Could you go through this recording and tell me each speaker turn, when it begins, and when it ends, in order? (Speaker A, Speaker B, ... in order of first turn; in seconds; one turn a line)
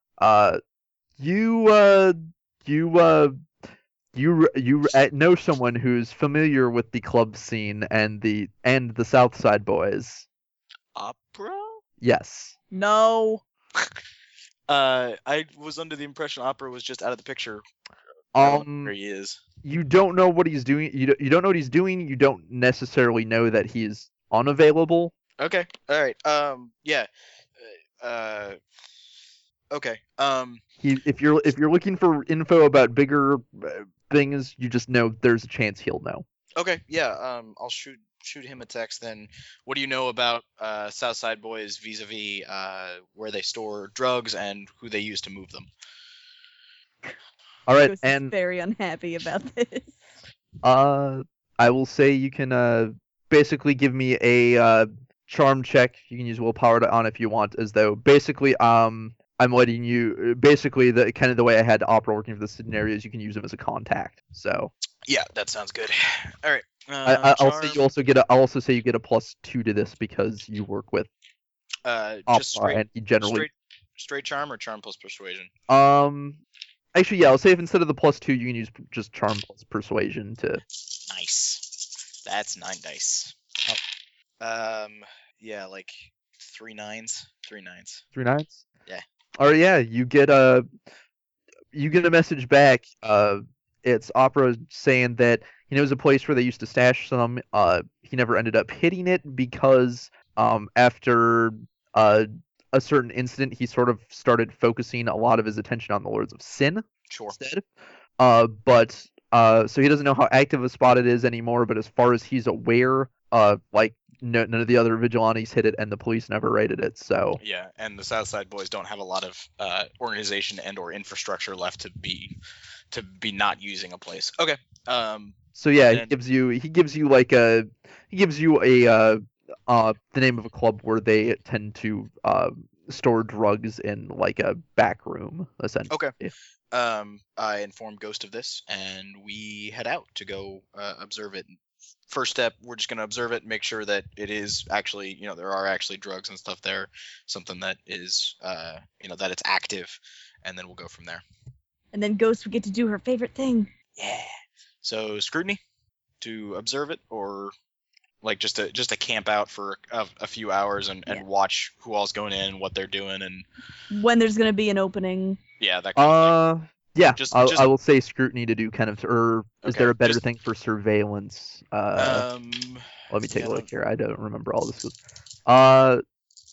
Speaker A: 0.2-0.6
Speaker A: 1.2-3.4
Speaker A: 4.1-10.3
Speaker B: 11.0-11.8
Speaker A: 12.0-12.6
Speaker C: 12.7-13.4
Speaker B: 14.7-17.6
Speaker A: 18.4-18.9
Speaker B: 18.4-19.4
Speaker A: 19.6-25.1
Speaker B: 25.4-28.6
Speaker B: 29.7-30.6
Speaker A: 30.8-36.2
Speaker B: 36.6-45.7
Speaker A: 47.7-48.3
Speaker C: 47.8-50.0
Speaker A: 50.6-64.7
Speaker B: 65.1-67.8
Speaker A: 67.0-71.1
Speaker B: 71.8-75.5
Speaker A: 72.3-73.5
Speaker A: 75.7-76.4
Speaker A: 76.9-80.6
Speaker B: 81.1-83.4
Speaker B: 84.4-88.0
Speaker A: 88.1-88.7
Speaker A: 89.4-90.7
Speaker A: 91.7-107.6
Speaker B: 107.1-107.4
Speaker A: 108.2-117.4
Speaker B: 117.4-122.4
Speaker B: 122.9-126.1
Speaker A: 125.5-136.3
Speaker B: 136.7-151.2
Speaker C: 151.9-153.7
Speaker B: 154.0-154.3
Speaker B: 154.8-155.6
Speaker B: 156.2-157.5
Speaker B: 158.2-163.5
Speaker C: 163.9-165.4
Speaker B: 165.6-166.4
Speaker A: 166.0-172.3
Speaker B: 167.2-167.7
Speaker B: 169.6-170.2
Speaker B: 171.9-173.7
Speaker A: 173.1-176.0